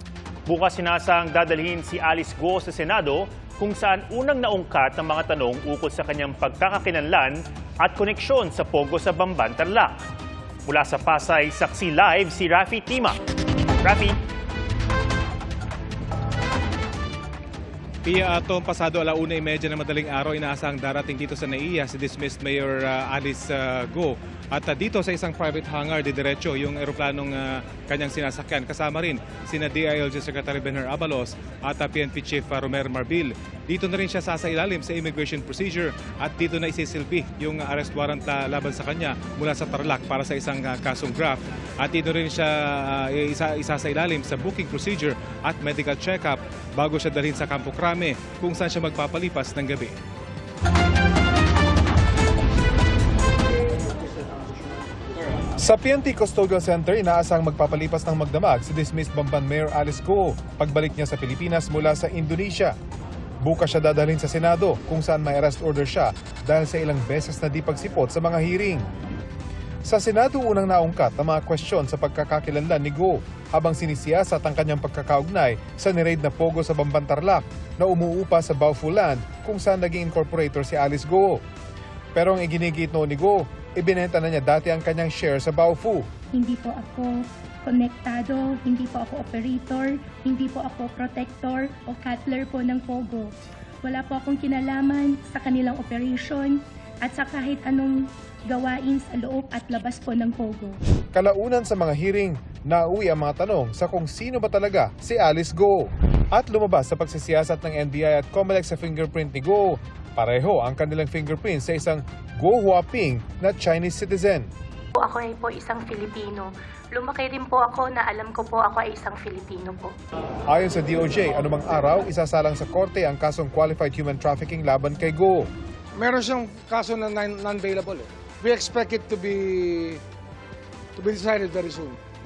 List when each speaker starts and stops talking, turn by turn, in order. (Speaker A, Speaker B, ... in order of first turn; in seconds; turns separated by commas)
Speaker A: 0.5-10.0, Speaker A: 10.7-13.2, Speaker A: 13.8-14.2, Speaker B: 18.0-49.9, Speaker C: 55.6-62.7, Speaker C: 63.4-68.8, Speaker C: 69.8-81.4, Speaker C: 82.1-86.1, Speaker D: 86.3-87.1, Speaker D: 87.6-93.3, Speaker D: 93.8-100.8, Speaker C: 101.1-114.5, Speaker D: 115.0-119.9, Speaker C: 120.5-125.5, Speaker E: 126.0-130.0, Speaker E: 131.0-132.0